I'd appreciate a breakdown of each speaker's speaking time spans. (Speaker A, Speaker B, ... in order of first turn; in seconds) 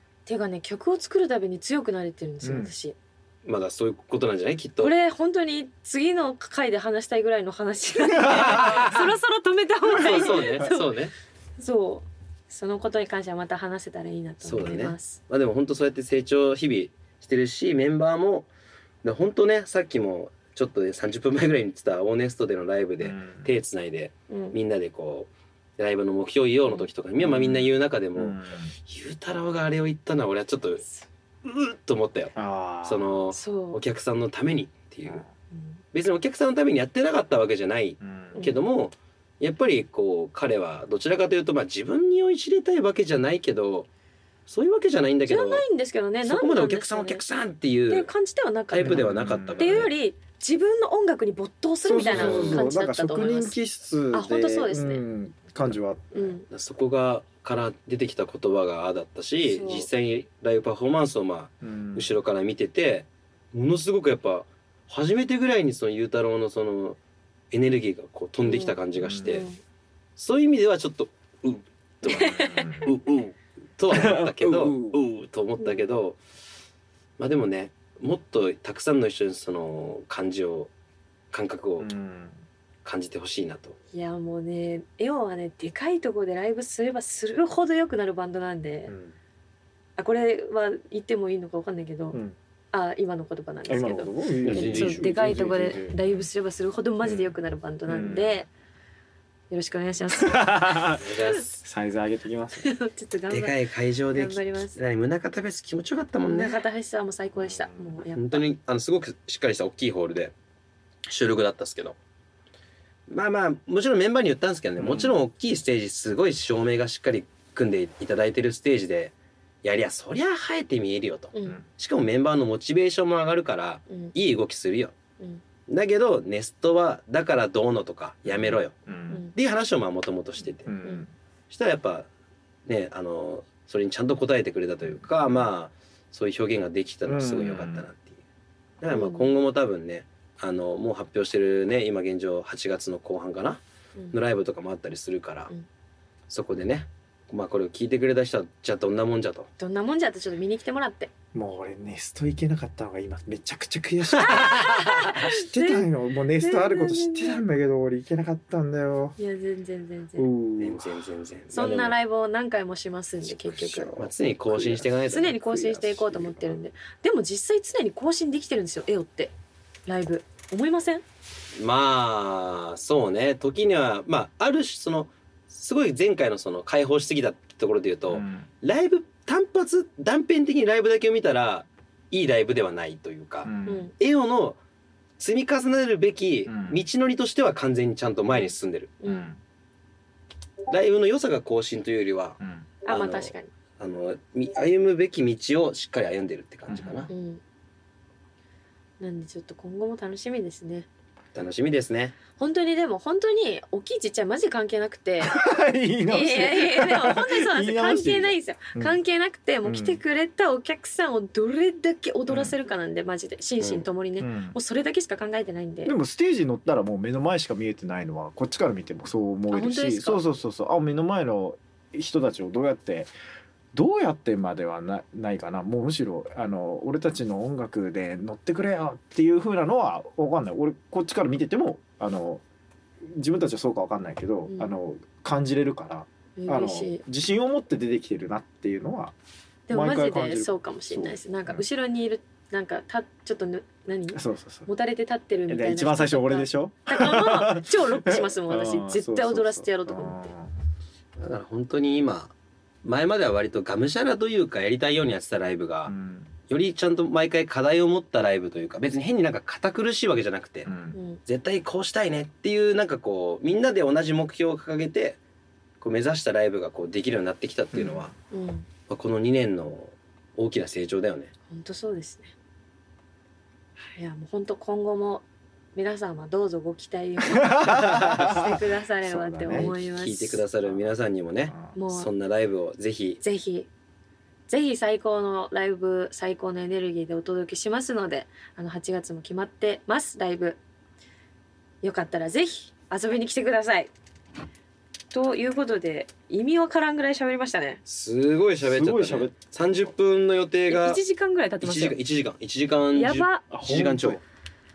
Speaker A: 0.2-3.0, 4.8-11.0, 11.6-15.2, 24.3-24.6, 33.3-33.8, 35.5-35.8, 38.3-38.6, 45.2-47.2, 47.9-49.0, 49.6-53.6, 54.1-55.0, 56.1-56.5, 59.4-59.9, 68.4-69.6, 72.0-72.9, 75.6-75.9, 83.9-88.9, 90.0-92.2, 92.7-98.5, 99.5-101.0, 102.6-103.6, 104.1-104.8, 106.2-108.4, 138.9-139.3, 149.6-151.1, 154.2-157.4, 159.2-160.3, 161.5-164.0, 165.0-169.3, 169.8-171.0, 183.7-183.9, 189.0-189.3, 192.8-193.5, 197.1-197.4, 199.0-200.9, 202.3-205.3, 206.1-215.9, 219.5-220.2, 234.5-234.8, 236.4-237.0, 239.7-250.3, 260.9-261.2, 268.3-268.7, 271.5-272.3, 273.9-280.4, 281.7-282.1, 283.2-283.7, 284.5-290.6, 291.8-293.9, 295.1-297.8, 300.7-302.0, 302.9-303.4
Speaker B: 2.4-2.7, 8.0-9.0, 9.9-10.7, 23.0-23.5, 27.2-28.7, 32.3-33.2, 38.0-38.4, 48.8-49.9, 51.8-56.4, 61.6-62.1, 68.9-69.4, 72.2-72.9, 73.9-75.0, 81.8-82.4, 88.9-89.2, 93.7-96.0, 97.0-97.3, 97.9-98.4, 100.1-102.7, 107.3-108.0, 114.8-115.2, 128.2-129.2, 130.6-131.1, 134.8-135.4, 137.1-137.9, 151.3-159.2, 160.2-161.1, 163.3-164.9, 165.4-166.6, 178.1-178.5, 183.4-183.9, 186.4-186.8, 189.0-189.4, 192.4-192.7, 196.7-197.1, 205.2-209.0, 209.6-210.0, 212.3-212.5, 213.6-214.6, 215.8-223.1, 223.7-232.4, 233.0-239.1, 239.7-241.6, 244.1-244.7, 245.5-250.6, 255.8-256.3, 260.6-261.0, 267.7-268.1, 277.3-278.5, 279.0-279.7, 281.5-281.7, 298.6-299.4, 303.5-304.2
Speaker C: 3.4-4.9, 8.3-9.1, 9.9-11.1, 14.4-18.5, 19.0-30.8, 31.4-35.2, 35.9-43.9, 44.5-45.6, 46.2-48.1, 48.7-49.9, 52.0-52.6, 56.5-67.0, 67.5-69.5, 70.2-76.2, 77.2-80.7, 81.3-81.9, 82.8-83.8, 94.4-95.1, 101.0-101.6, 103.3-106.6, 108.2-110.3, 111.1-112.0, 113.1-124.9, 125.7-128.7, 129.3-130.7, 131.5-132.1, 132.7-138.2, 138.8-143.6, 144.1-145.5, 146.3-149.5, 154.2-154.8, 160.6-162.0, 163.9-166.0, 171.6-184.6, 185.2-188.9, 190.7-197.1, 201.3-202.2, 251.2-252.3, 252.8-255.9, 256.5-260.7, 261.2-265.2, 265.8-268.1, 268.9-271.3, 279.5-283.2, 297.9-301.0, 301.6-304.2